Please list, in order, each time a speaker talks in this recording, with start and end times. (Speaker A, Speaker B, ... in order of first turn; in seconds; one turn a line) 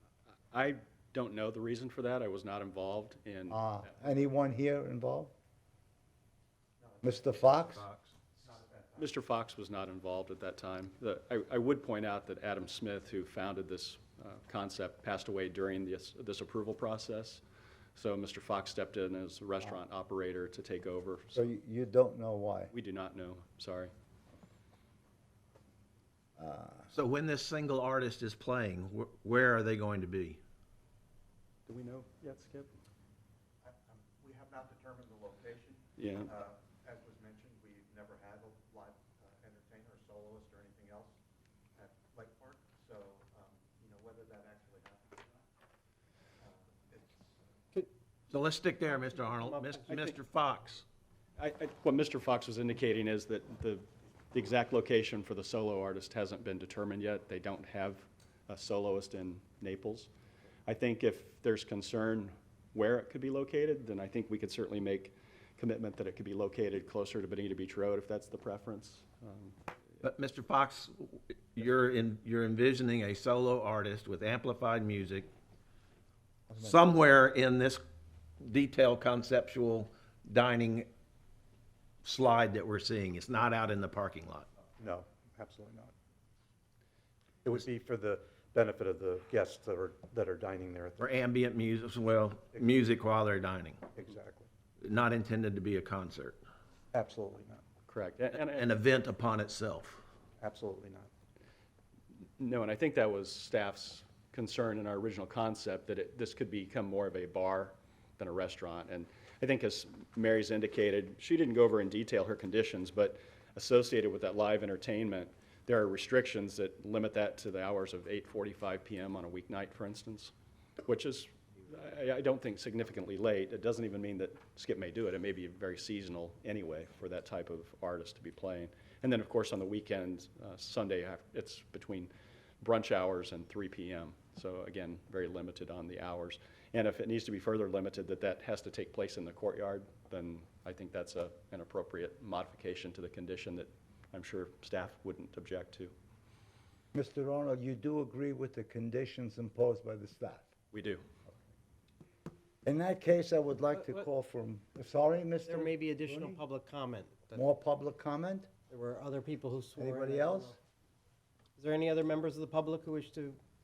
Speaker A: 0.5-3.6
Speaker B: 3.5-5.3
Speaker C: 6.8-9.1
Speaker B: 7.0-7.8
Speaker A: 9.0-17.4
Speaker A: 17.9-21.5
Speaker B: 21.3-22.7
Speaker A: 22.7-23.9
Speaker B: 26.4-26.9
Speaker D: 26.9-30.4
Speaker A: 31.7-32.7
Speaker C: 33.6-41.1
Speaker A: 36.0-36.3
Speaker C: 41.8-45.3
Speaker C: 46.4-47.3
Speaker D: 48.3-50.8
Speaker E: 49.4-49.9
Speaker A: 51.4-60.1
Speaker A: 60.7-69.5
Speaker D: 70.0-75.3
Speaker B: 76.5-76.8
Speaker D: 76.6-77.8
Speaker D: 78.4-80.9
Speaker D: 82.0-84.5
Speaker C: 84.8-85.9
Speaker C: 87.4-91.2
Speaker D: 91.0-93.8
Speaker C: 92.5-92.8
Speaker C: 93.9-94.5
Speaker D: 94.8-96.4
Speaker C: 96.9-97.6
Speaker A: 97.9-98.7
Speaker D: 98.4-100.0
Speaker C: 100.4-101.1
Speaker A: 102.4-120.3
Speaker A: 120.8-145.9
Speaker B: 146.9-150.5
Speaker A: 150.7-151.0
Speaker B: 152.6-156.3
Speaker E: 155.4-157.4
Speaker B: 157.3-158.5
Speaker E: 158.7-160.6
Speaker B: 159.8-160.5
Speaker E: 161.6-163.4